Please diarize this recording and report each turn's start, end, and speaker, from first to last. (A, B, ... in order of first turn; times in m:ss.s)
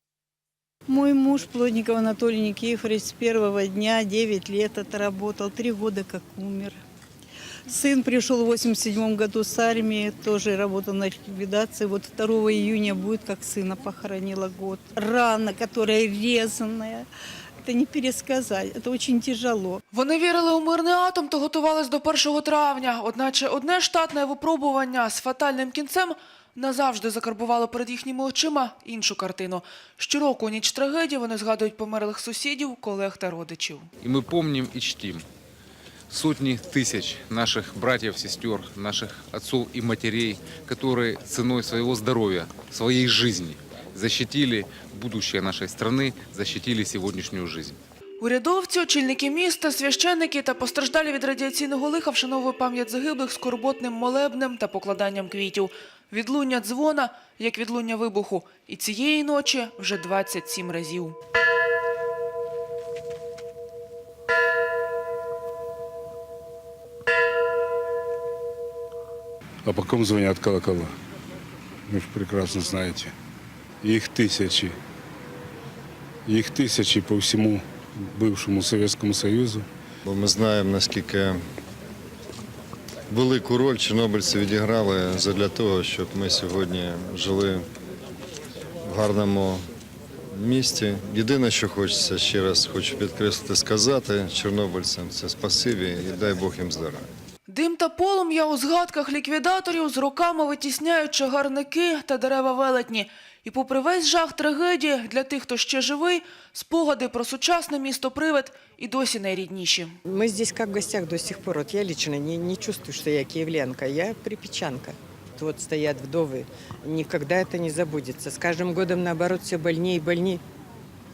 0:00.9-0:06.8 A
0:07.7-0:17.1 A
0:17.6-0:19.8 A
0:19.9-0:33.9 B
0:34.0-0:35.3 C
0:36.1-0:47.8 C
0:48.2-1:01.2 B
1:09.6-1:10.9 D
1:11.9-1:13.1 D
1:13.8-1:14.8 D
1:16.3-1:19.7 D
1:20.1-1:21.4 E
1:23.1-1:27.7 E
1:28.8-1:29.6 E
1:30.3-1:37.1 E
1:37.5-1:50.0 B
1:50.1-2:00.4 F